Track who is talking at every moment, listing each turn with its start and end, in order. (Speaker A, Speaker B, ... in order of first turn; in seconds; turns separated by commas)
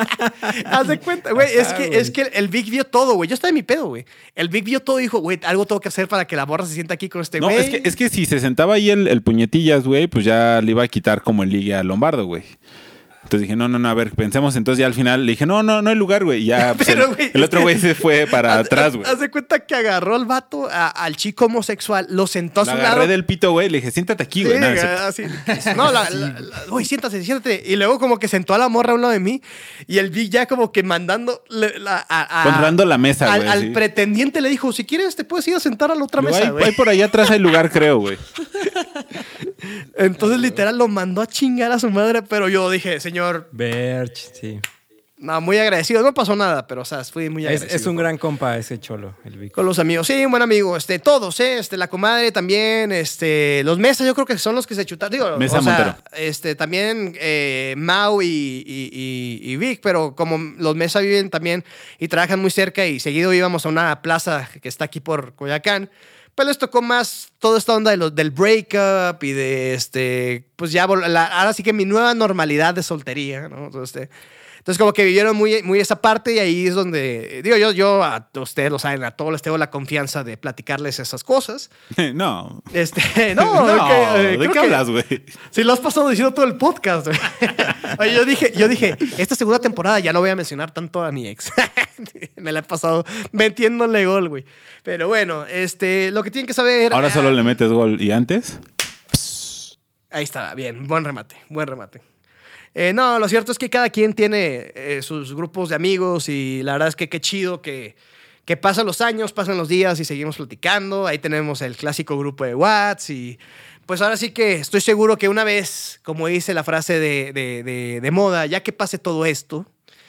Speaker A: 0.2-0.7, Speaker B: 0.5-7.9, Speaker A: 1.3-2.1, Speaker C: 7.4-12.5, Speaker C: 13.3-19.1, Speaker B: 16.6-23.1, Speaker C: 22.6-25.0, Speaker B: 24.4-36.8, Speaker C: 32.4-33.8, Speaker C: 36.2-38.2, Speaker B: 39.8-43.5, Speaker A: 43.5-44.6, Speaker B: 45.2-48.1, Speaker A: 47.4-49.6, Speaker B: 49.5-74.1, Speaker C: 55.4-56.0, Speaker B: 74.6-81.7, Speaker C: 81.9-82.7, Speaker B: 82.7-84.8, Speaker C: 83.3-85.3, Speaker B: 85.5-97.3, Speaker C: 96.9-98.6, Speaker B: 100.1-102.0, Speaker B: 102.7-107.9, Speaker B: 108.5-119.7